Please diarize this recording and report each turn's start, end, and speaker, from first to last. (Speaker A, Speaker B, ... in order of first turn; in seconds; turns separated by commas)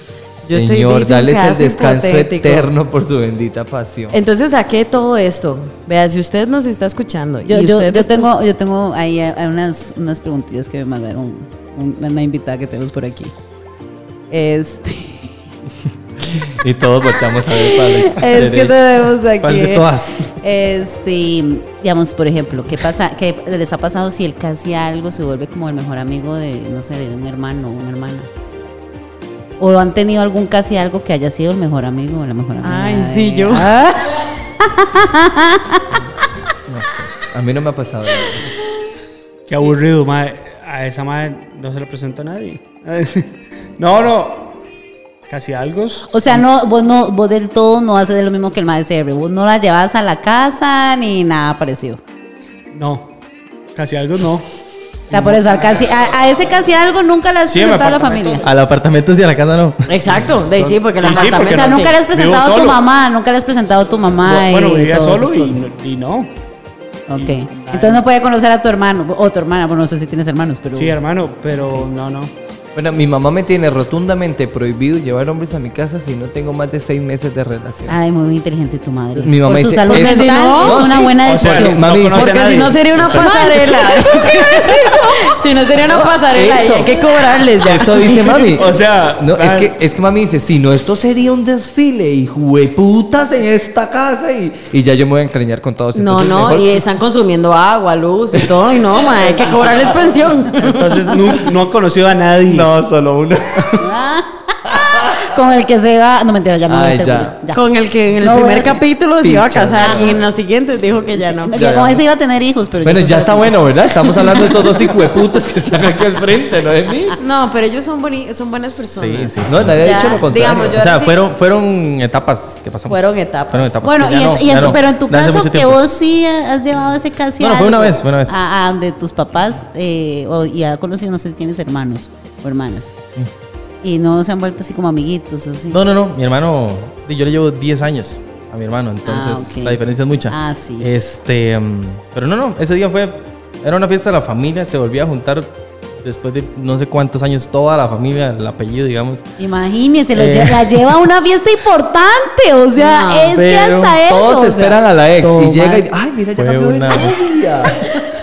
Speaker A: 0.4-2.7, Speaker B: 0.5-4.2, Speaker A: 4.1-8.3, Speaker C: 7.5-13.3, Speaker C: 14.3-15.3, Speaker B: 16.5-18.5, Speaker C: 17.5-19.9, Speaker D: 18.3-20.2, Speaker C: 20.4-28.3, Speaker C: 29.6-35.9, Speaker A: 32.6-33.8, Speaker B: 36.7-38.5, Speaker E: 39.5-44.6, Speaker E: 45.3-46.4, Speaker C: 46.1-52.0, Speaker E: 52.7-53.1, Speaker E: 53.8-54.5, Speaker E: 55.1-56.1, Speaker C: 55.1-58.4, Speaker E: 57.5-58.5, Speaker D: 58.4-59.9, Speaker A: 59.9-62.0, Speaker E: 60.1-62.8, Speaker C: 61.5-65.6, Speaker E: 64.2-66.3, Speaker C: 67.1-71.0, Speaker E: 67.2-68.0, Speaker E: 70.7-72.3, Speaker B: 72.8-78.0, Speaker C: 77.9-81.8, Speaker B: 79.2-83.3, Speaker A: 79.9-81.0, Speaker E: 81.1-83.3, Speaker A: 82.1-88.5, Speaker C: 83.1-85.3, Speaker B: 85.9-87.0, Speaker B: 87.6-96.8, Speaker E: 88.5-89.7, Speaker A: 96.0-101.1, Speaker E: 99.5-100.0, Speaker E: 100.5-102.7, Speaker B: 102.5-103.9, Speaker C: 103.8-107.6, Speaker B: 104.9-105.2, Speaker B: 106.7-107.3, Speaker A: 107.5-111.5, Speaker C: 108.2-108.8, Speaker B: 109.2-110.2, Speaker C: 109.8-110.1, Speaker C: 111.2-114.9, Speaker B: 111.5-112.0, Speaker B: 112.8-117.2, Speaker A: 117.2-121.2, Speaker D: 118.7-120.0, Speaker B: 119.5-120.8, Speaker D: 120.8-125.8, Speaker A: 122.9-123.8, Speaker C: 123.8-133.0, Speaker D: 127.4-128.4, Speaker C: 133.8-135.8, Speaker D: 135.7-145.5, Speaker C: 139.1-140.9, Speaker D: 146.0-149.2, Speaker C: 149.4-155.9, Speaker D: 150.2-150.8, Speaker A: 152.8-153.3, Speaker D: 153.3-154.0, Speaker B: 154.1-157.9, Speaker D: 156.4-157.2